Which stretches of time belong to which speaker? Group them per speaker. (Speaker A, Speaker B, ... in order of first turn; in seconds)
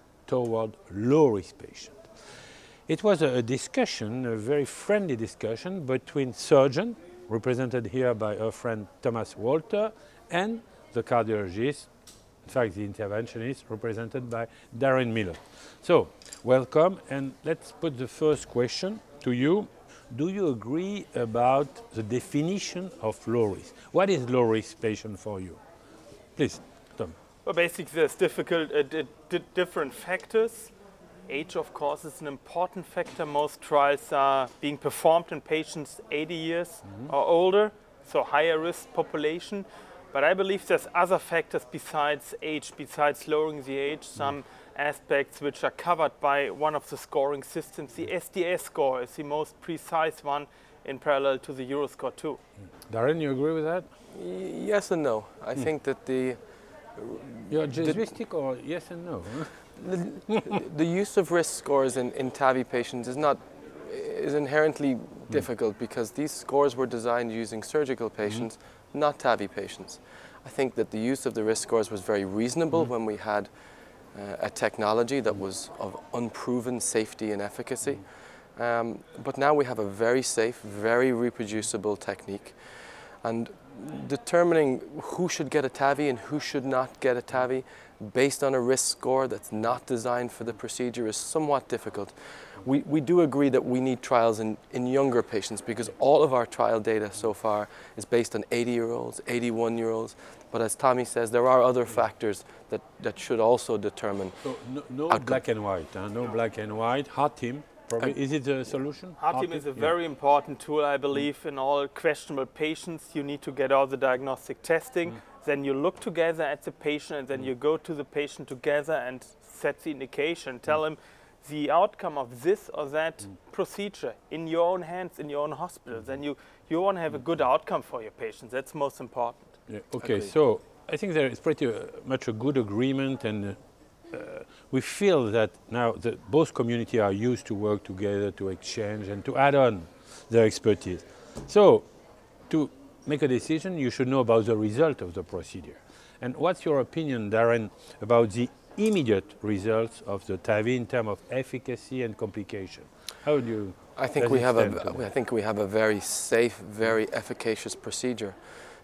Speaker A: 0.3-2.1, 2.9-11.9, 12.5-25.6, 26.4-27.1, 52.9-53.9, 57.5-59.6, 60.3-60.6, 104.4-109.9, 129.7-133.6, 134.1-141.9, 142.5-155.1
Speaker B: 27.4-30.7, 31.3-52.4, 109.2-129.6
Speaker C: 54.1-56.4, 57.0-58.0, 59.7-73.5, 74.1-78.0, 78.5-82.5, 83.2-104.3, 105.1-105.4, 130.0-130.3, 154.0-158.4